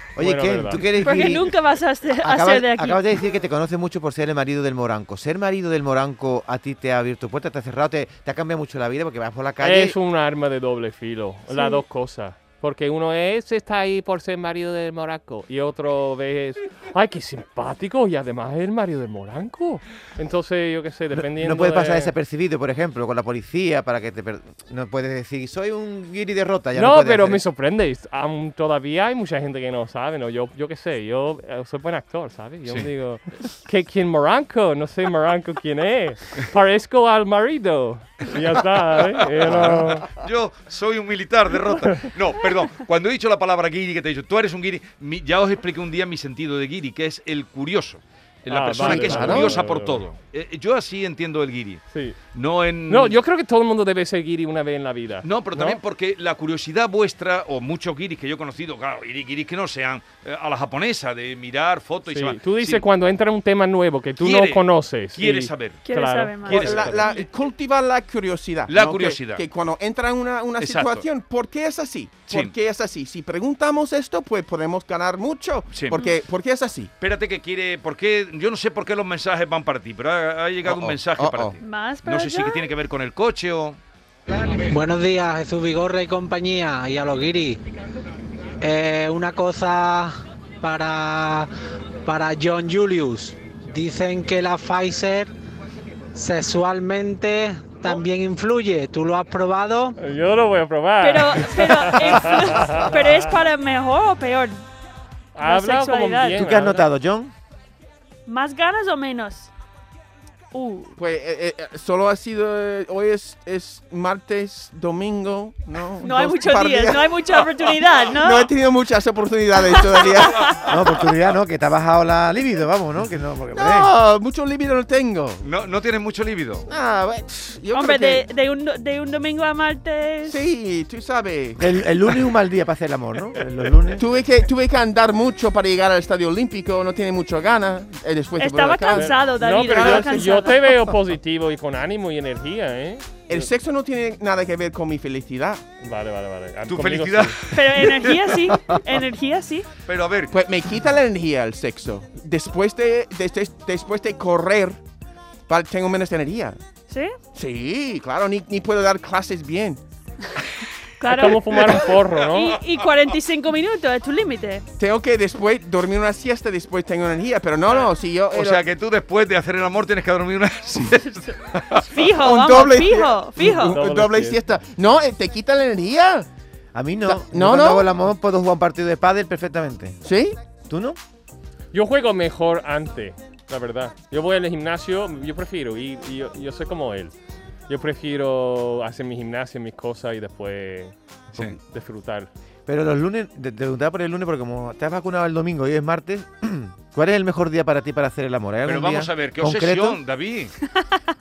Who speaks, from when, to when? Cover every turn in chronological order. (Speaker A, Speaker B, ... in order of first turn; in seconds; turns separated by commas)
Speaker A: 0.2-1.5, Speaker B: 0.2-0.8, Speaker C: 1.0-3.0, Speaker A: 2.2-10.0, Speaker B: 9.6-22.1, Speaker C: 11.5-11.8, Speaker A: 21.1-27.4, Speaker B: 26.8-40.1, Speaker D: 39.2-51.8, Speaker B: 48.5-50.0, Speaker E: 48.8-49.5, Speaker D: 52.3-53.2, Speaker B: 52.9-55.8, Speaker D: 55.2-62.9, Speaker B: 62.1-67.2, Speaker D: 64.2-65.8, Speaker C: 65.8-66.8, Speaker D: 66.5-66.9, Speaker E: 66.5-76.9, Speaker D: 68.7-69.4, Speaker D: 70.6-71.1, Speaker D: 75.7-76.0, Speaker D: 77.0-83.8, Speaker E: 80.7-81.6, Speaker C: 81.6-82.7, Speaker F: 84.5-87.6, Speaker F: 88.6-91.5, Speaker F: 92.0-95.3, Speaker F: 96.1-100.0, Speaker B: 100.0-103.2, Speaker C: 101.0-104.7, Speaker B: 105.3-106.9, Speaker C: 105.4-106.4, Speaker A: 106.3-107.3, Speaker C: 108.3-109.5, Speaker C: 110.5-111.0, Speaker E: 111.0-117.1, Speaker C: 116.0-118.5, Speaker E: 118.2-120.6, Speaker C: 119.8-120.7, Speaker A: 120.7-123.9, Speaker E: 123.5-125.5, Speaker D: 125.4-126.7, Speaker E: 126.7-128.3, Speaker C: 127.7-130.4, Speaker E: 130.3-131.8, Speaker A: 131.6-134.1, Speaker E: 134.0-140.3, Speaker C: 138.4-140.6, Speaker B: 138.9-143.5, Speaker E: 143.3-145.6, Speaker B: 145.8-147.4, Speaker D: 146.7-148.6, Speaker C: 147.5-149.7, Speaker D: 149.9-150.3, Speaker E: 150.3-154.8, Speaker E: 155.5-156.6, Speaker C: 156.9-157.2, Speaker E: 157.3-159.8, Speaker C: 161.0-164.7, Speaker B: 161.1-162.6, Speaker D: 161.6-162.4, Speaker E: 164.8-168.6, Speaker D: 168.3-171.9, Speaker C: 171.1-173.8, Speaker E: 172.0-176.3, Speaker B: 173.4-174.4, Speaker A: 176.7-180.0, Speaker E: 177.1-177.9, Speaker E: 180.0-180.4, Speaker A: 180.7-181.0, Speaker B: 181.7-187.1, Speaker B: 187.7-190.9, Speaker D: 191.3-191.6, Speaker B: 191.6-192.3, Speaker A: 192.7-200.0, Speaker D: 198.7-200.6